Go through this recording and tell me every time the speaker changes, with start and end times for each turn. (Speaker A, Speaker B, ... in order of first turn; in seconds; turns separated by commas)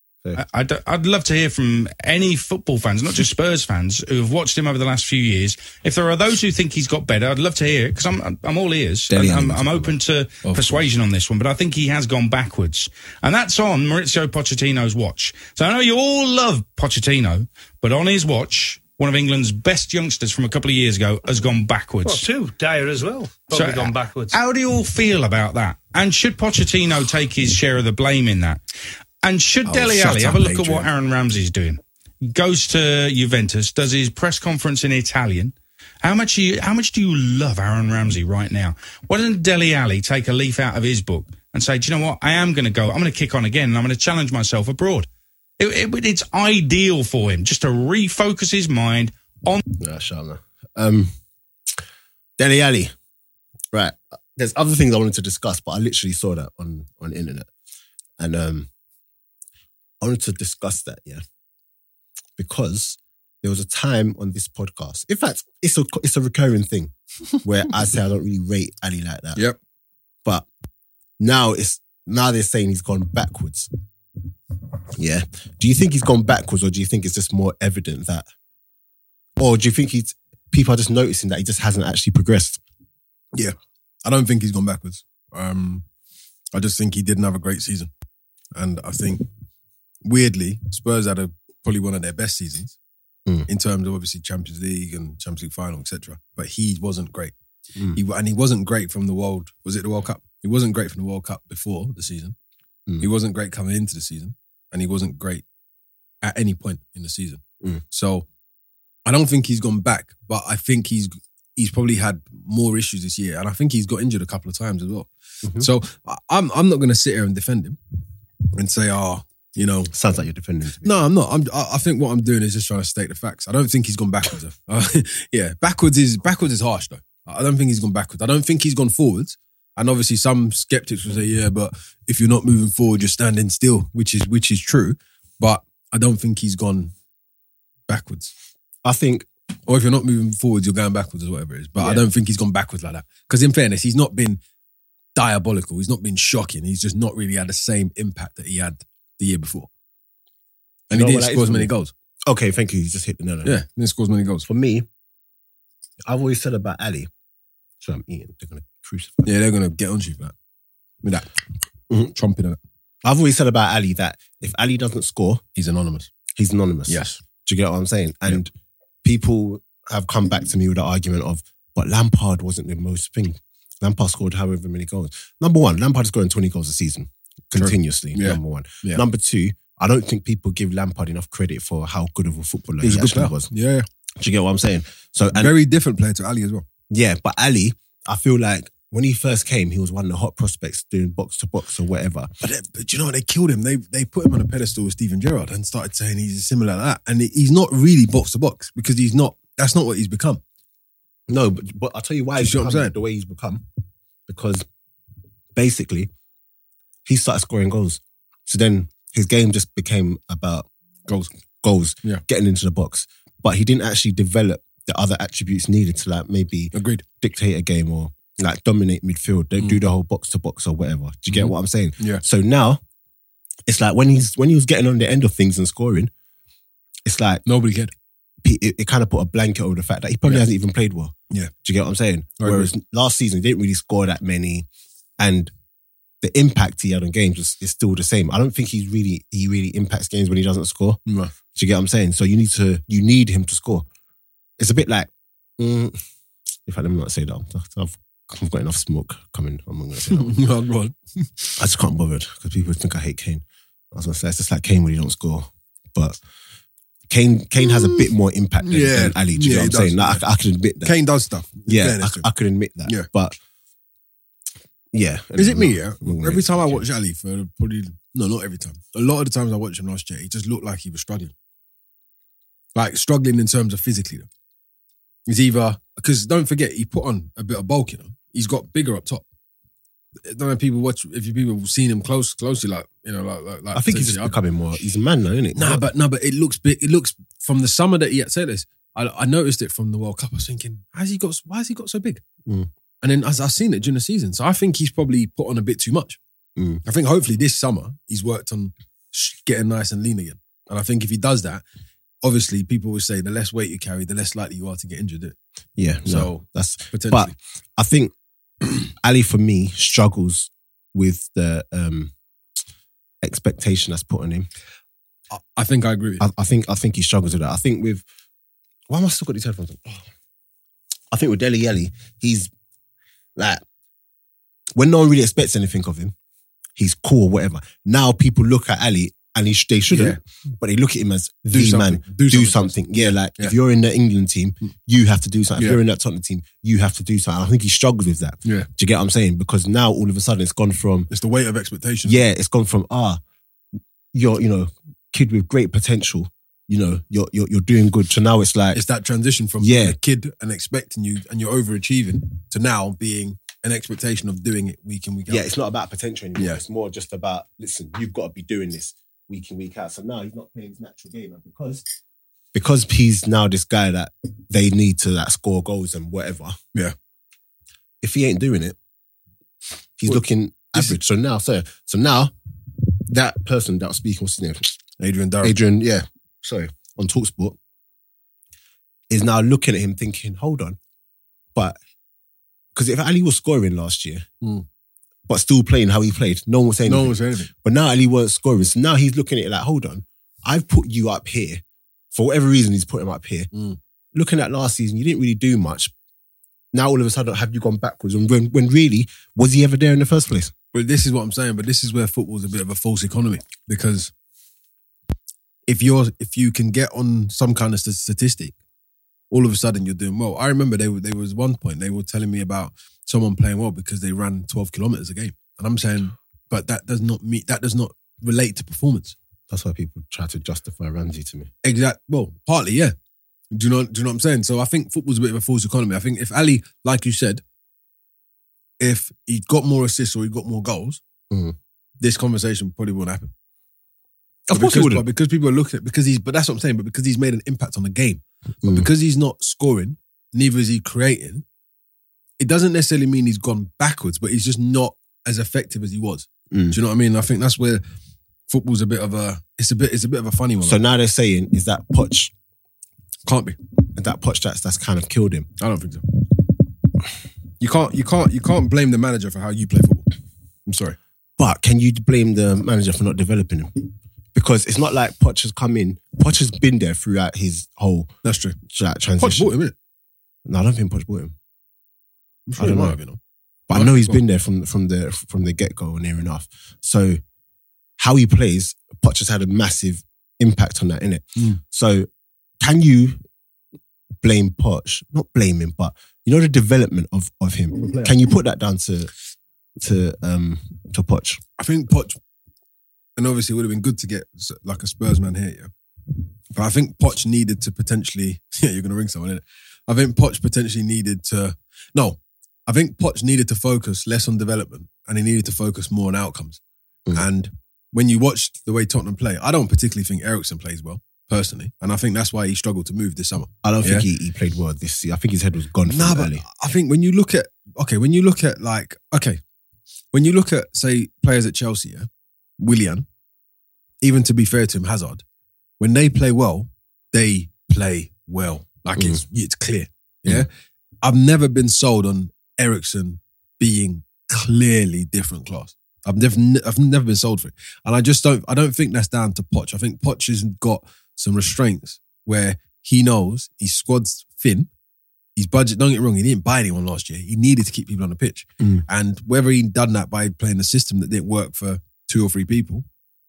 Speaker A: 0.3-22.3, Speaker B: 9.1-9.9, Speaker C: 10.4-10.8, Speaker D: 22.1-24.4, Speaker A: 23.5-28.6, Speaker A: 29.2-45.1, Speaker C: 29.6-30.9, Speaker A: 45.6-49.6, Speaker B: 49.7-51.1, Speaker B: 52.4-52.9, Speaker B: 53.7-57.5, Speaker B: 58.2-58.7, Speaker B: 60.0-61.2, Speaker B: 62.4-66.9, Speaker B: 67.4-69.4, Speaker B: 71.2-73.7, Speaker B: 75.0-78.3, Speaker B: 79.4-82.6, Speaker C: 83.3-85.8, Speaker C: 86.5-87.9, Speaker C: 88.5-89.2, Speaker C: 90.0-92.8, Speaker C: 93.5-97.3, Speaker C: 97.9-102.3, Speaker C: 103.0-105.4, Speaker C: 106.2-108.3, Speaker C: 109.0-117.8, Speaker C: 118.5-119.9, Speaker B: 119.9-120.9, Speaker C: 120.8-136.9, Speaker C: 137.9-138.3, Speaker B: 138.8-139.2, Speaker C: 139.7-144.4, Speaker B: 141.8-142.0, Speaker C: 145.1-149.7, Speaker C: 150.9-151.9, Speaker B: 150.9-151.7, Speaker B: 152.2-153.6, Speaker C: 153.4-154.5, Speaker B: 154.4-154.9, Speaker B: 156.1-157.1, Speaker B: 157.8-159.3, Speaker C: 159.2-160.3, Speaker C: 161.0-161.3, Speaker C: 162.1-162.6, Speaker B: 163.0-165.4, Speaker C: 165.6-166.1, Speaker B: 166.3-168.5, Speaker C: 166.9-167.2, Speaker B: 169.0-183.5, Speaker C: 177.5-179.0, Speaker C: 182.8-183.9, Speaker B: 184.2-185.5, Speaker C: 185.4-186.7, Speaker B: 186.9-192.3, Speaker C: 192.4-200.4, Speaker B: 201.3-203.6, Speaker C: 202.4-202.9, Speaker B: 204.3-204.7, Speaker B: 205.5-206.1, Speaker B: 207.0-210.7, Speaker B: 211.6-222.8, Speaker C: 216.7-217.0, Speaker C: 221.3-222.2, Speaker B: 223.7-226.1, Speaker B: 227.0-227.4, Speaker C: 227.4-227.9, Speaker B: 228.4-231.1, Speaker B: 231.6-234.7, Speaker C: 232.4-232.7, Speaker B: 235.2-235.5, Speaker B: 236.2-241.0, Speaker C: 241.1-241.3, Speaker B: 241.5-243.9, Speaker B: 244.6-246.0, Speaker B: 246.7-250.3, Speaker C: 250.1-251.6, Speaker B: 251.6-256.2, Speaker B: 257.1-260.9, Speaker C: 257.6-258.1, Speaker C: 258.6-260.2, Speaker C: 260.8-262.3, Speaker B: 261.7-263.4, Speaker B: 264.9-266.8, Speaker C: 265.4-271.3, Speaker C: 272.7-274.3, Speaker C: 275.3-279.2, Speaker C: 280.2-284.4, Speaker B: 283.7-285.8, Speaker C: 285.6-292.2, Speaker C: 293.0-296.2, Speaker B: 296.6-296.8, Speaker C: 296.8-301.6, Speaker C: 302.2-305.4, Speaker B: 305.8-308.1, Speaker C: 306.0-307.3, Speaker B: 309.0-312.1, Speaker B: 313.2-314.5, Speaker C: 315.3-316.2, Speaker B: 316.2-318.0, Speaker B: 318.9-320.1, Speaker B: 321.1-322.5, Speaker B: 323.4-323.6, Speaker B: 324.7-326.1, Speaker B: 326.8-341.1, Speaker C: 329.9-330.2, Speaker C: 331.5-333.5, Speaker C: 341.1-342.2, Speaker B: 342.0-343.2, Speaker B: 344.1-348.8, Speaker C: 348.7-355.4, Speaker B: 349.6-349.9, Speaker B: 355.3-361.9, Speaker B: 362.5-366.6, Speaker B: 368.0-368.8, Speaker B: 370.0-372.3, Speaker B: 373.0-374.7, Speaker C: 375.0-375.6, Speaker B: 375.4-377.6, Speaker B: 379.1-380.8, Speaker B: 382.7-384.2, Speaker B: 385.3-391.6, Speaker C: 386.9-387.5, Speaker B: 392.1-393.5, Speaker C: 393.5-393.8, Speaker B: 394.1-395.9, Speaker B: 396.7-400.5, Speaker C: 400.7-404.1, Speaker C: 405.7-408.6, Speaker C: 409.3-419.1, Speaker B: 419.5-421.5, Speaker C: 421.6-422.9, Speaker C: 423.5-427.4, Speaker C: 428.8-431.0, Speaker C: 432.0-433.3, Speaker B: 434.5-435.1, Speaker C: 434.5-441.4, Speaker B: 438.6-438.9, Speaker C: 442.4-447.8, Speaker B: 446.5-446.8, Speaker C: 448.5-450.8, Speaker B: 450.6-452.3, Speaker C: 453.2-453.6, Speaker B: 453.9-455.5, Speaker C: 455.6-456.0, Speaker C: 457.6-460.1, Speaker C: 460.6-461.0, Speaker B: 461.4-463.7, Speaker B: 464.3-468.1, Speaker C: 468.2-468.6, Speaker B: 468.6-469.5, Speaker C: 469.2-469.7, Speaker B: 470.4-471.3, Speaker C: 472.5-473.2, Speaker B: 472.6-473.0, Speaker B: 473.7-477.2, Speaker C: 473.7-474.2, Speaker B: 478.0-482.1, Speaker B: 482.6-483.2, Speaker B: 484.2-489.1, Speaker C: 487.8-488.2, Speaker B: 489.8-491.4, Speaker C: 491.6-492.2, Speaker C: 493.2-495.7, Speaker C: 496.5-506.6, Speaker C: 507.1-514.1, Speaker B: 513.6-516.4, Speaker C: 515.9-519.4, Speaker C: 520.1-522.1, Speaker C: 522.6-523.1, Speaker C: 524.0-525.2, Speaker C: 525.8-530.5, Speaker C: 531.0-544.7, Speaker C: 545.4-552.9